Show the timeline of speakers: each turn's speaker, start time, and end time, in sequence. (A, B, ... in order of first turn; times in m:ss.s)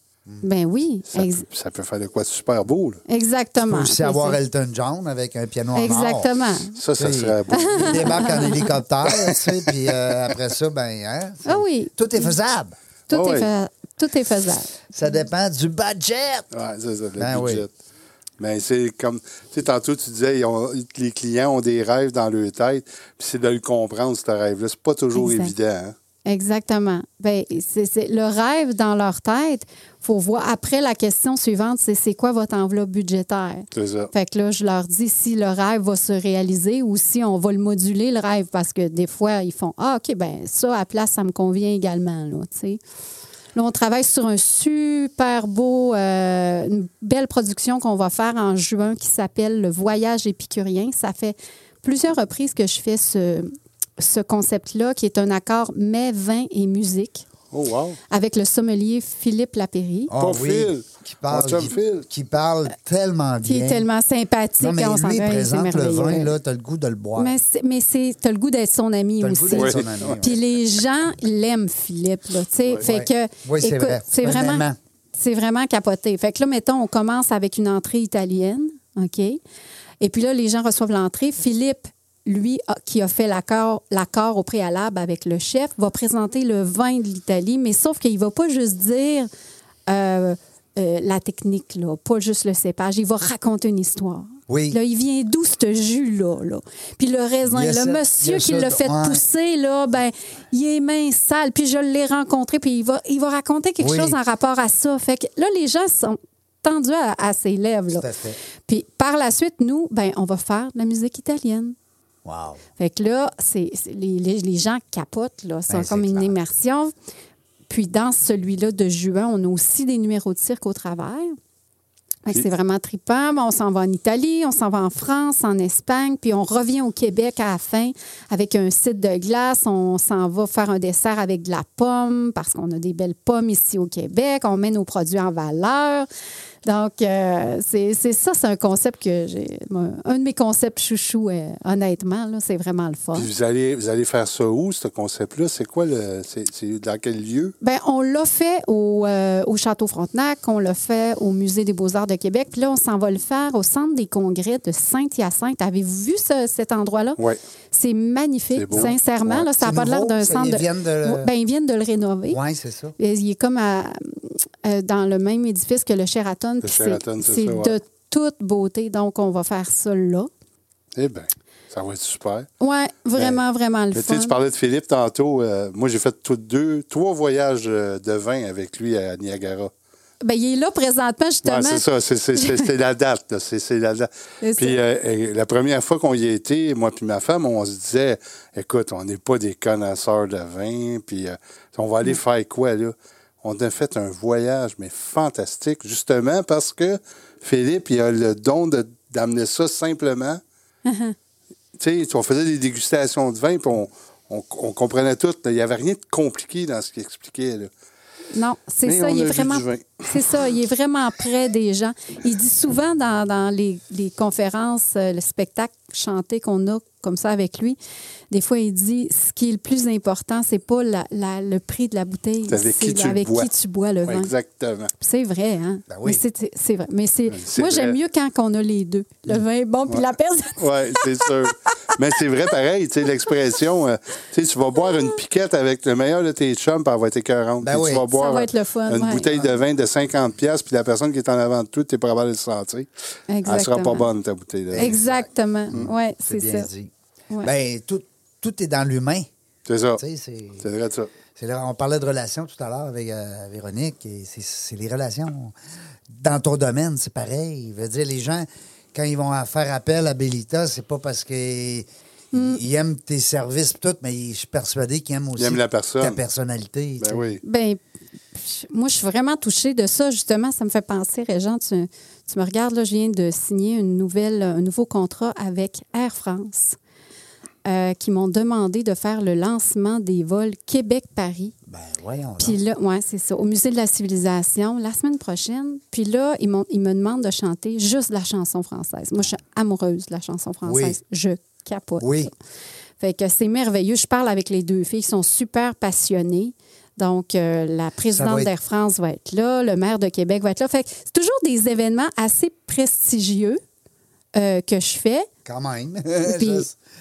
0:00.4-0:01.4 A
0:01.2-0:03.0 B
0:03.1-0:04.4 A
0:03.7-0:06.3 C
0:05.7-0:06.8 A
0:06.8-0:08.4 B
0:06.9-0:12.8 C
0:07.5-0:08.8 A
0:09.0-0:10.1 B
0:11.4-0:12.3 A
0:13.1-0:14.8 A
0:13.1-0:13.5 B
0:14.9-0:16.4 C
0:16.5-0:17.7 B
0:17.2-0:17.6 C
0:18.4-0:26.0 B
0:25.1-0:25.5 A
0:26.2-0:42.8 A
0:33.7-0:34.1 B
0:43.5-0:57.3 A
0:57.5-0:58.0 B
0:58.1-1:00.1 A
1:00.1-1:03.9 C
1:00.2-1:02.0 B
1:03.4-1:06.3 A
1:04.6-1:07.4 C
1:07.2-1:19.4 A
1:09.2-1:10.4 C
1:09.5-1:10.2 B
1:12.8-1:14.8 C
1:20.0-1:29.3 A
1:29.9-1:48.1 A
1:34.5-1:34.8 C
1:37.4-1:39.2 C
1:43.8-1:44.2 C
1:47.9-1:48.4 C
1:48.6-1:51.7 A
1:52.2-1:52.6 C
1:52.8-1:56.9 A
1:55.7-1:56.3 C
1:57.7-2:01.3 A
2:02.2-2:16.1 A
2:16.6-2:23.3 A
2:23.1-2:27.5 B
2:27.6-2:37.2 A
2:37.7-2:42.4 A
2:38.5-2:39.0 B
2:38.8-2:41.3 C
2:42.3-2:42.9 C
2:43.0-2:50.3 A
2:46.6-2:47.7 B
2:50.9-2:52.5 B
2:52.6-2:54.3 A
2:53.9-2:59.7 B
3:00.2-3:01.8 A
3:01.4-3:20.4 B
3:02.4-3:02.6 A
3:04.4-3:04.8 A
3:20.8-3:21.1 A
3:21.8-3:27.7 B
3:28.3-3:37.8 A
3:28.8-3:30.1 B
3:38.3-3:44.3 A
3:42.5-3:43.5 B
3:44.0-3:44.9 B
3:45.0-3:51.5 A
3:45.9-3:46.2 C
3:47.3-3:48.0 B
3:50.6-4:02.9 B
3:57.6-3:58.0 C
3:58.1-3:59.4 A
4:03.3-4:04.1 A
4:03.4-4:05.9 B
4:04.7-4:05.1 C
4:04.7-4:06.7 A
4:06.2-4:09.3 C
4:09.6-4:10.0 B
4:10.0-4:10.7 C
4:10.6-4:11.1 B
4:11.3-4:15.5 C
4:16.1-4:27.3 C
4:22.3-4:22.6 A
4:25.4-4:26.2 B
4:27.0-4:27.4 B
4:27.4-4:27.8 A
4:28.4-4:36.8 A
4:37.6-4:41.5 A
4:41.7-4:42.6 C
4:42.4-4:52.3 A
4:50.6-4:51.0 C
4:52.0-4:52.3 C
4:53.0-5:03.6 A
4:58.1-4:58.5 C
5:04.3-5:05.3 A
5:05.4-5:06.7 C
5:06.2-5:06.7 A